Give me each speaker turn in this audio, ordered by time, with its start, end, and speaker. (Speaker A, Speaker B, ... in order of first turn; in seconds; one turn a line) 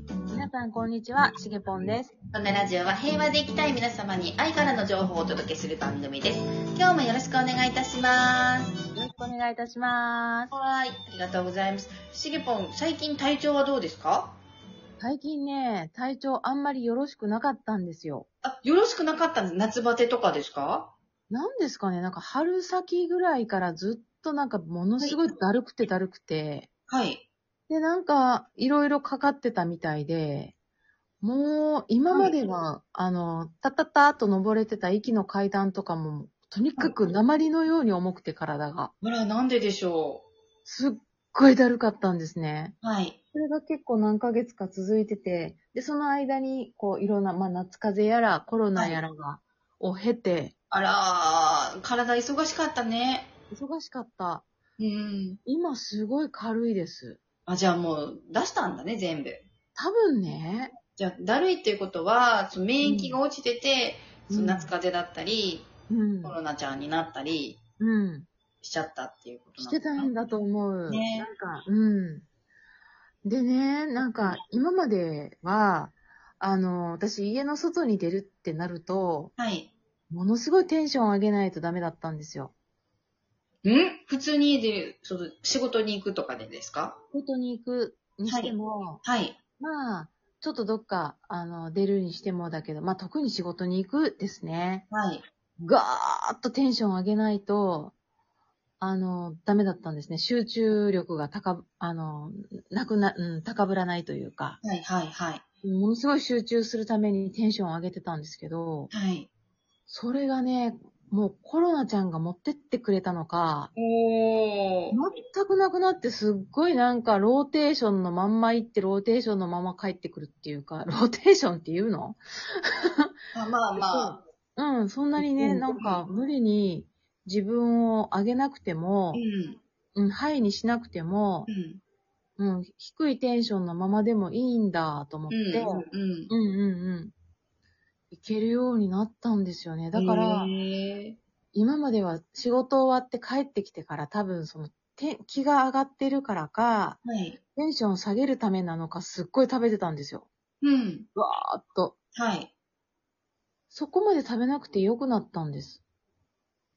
Speaker A: 0.3-2.1
Speaker B: 2.3-8.7
Speaker A: 8.9-10.5
Speaker B: 10.5-14.4
Speaker A: 15.0-18.3
Speaker B: 18.4-20.9
Speaker A: 21.3-26.7
Speaker B: 26.9-27.2
Speaker A: 27.7-30.5
Speaker A: 31.2-38.9
Speaker B: 39.0-40.2
Speaker A: 40.7-42.8
Speaker B: 42.8-43.2
Speaker A: 43.3-50.5
Speaker B: 50.7-53.3
Speaker A: 53.5-54.5
Speaker B: 54.8-55.4
Speaker A: 55.5-57.2
Speaker B: 57.5-59.5
Speaker A: 59.8-60.7
Speaker B: 61.0-65.7
Speaker A: 62.8-63.2
Speaker A: 64.3-64.7
Speaker A: 65.9-66.4
Speaker B: 66.2-67.6
Speaker A: 67.8-68.3
Speaker B: 68.6-70.1
Speaker A: 69.6-72.3
Speaker B: 70.9-71.3
Speaker A: 73.2-79.3
Speaker B: 79.4-79.7
Speaker A: 80.1-82.5
Speaker B: 83.6-87.0
Speaker A: 87.1-89.0
Speaker B: 88.3-89.4
Speaker A: 89.6-94.9
Speaker B: 94.9-95.3
Speaker A: 95.6-97.9
Speaker A: 98.8-104.6
Speaker B: 104.6-105.4
Speaker A: 105.6-108.9
Speaker B: 108.9-109.3
Speaker A: 109.9-113.7
Speaker B: 113.8-115.0
Speaker A: 114.9-123.1
Speaker B: 123.3-124.2
Speaker A: 123.8-129.2
Speaker B: 125.2-126.0
Speaker B: 129.1-129.6
Speaker A: 130.0-131.5
Speaker B: 131.5-131.8
Speaker A: 132.4-137.1
Speaker B: 135.3-136.3
Speaker A: 138.1-140.5
Speaker B: 139.9-141.2
Speaker A: 141.5-147.0
Speaker B: 147.1-147.4
Speaker A: 147.6-150.3
Speaker B: 150.6-151.1
Speaker A: 151.2-152.0
Speaker B: 152.2-152.5
Speaker A: 153.7-155.8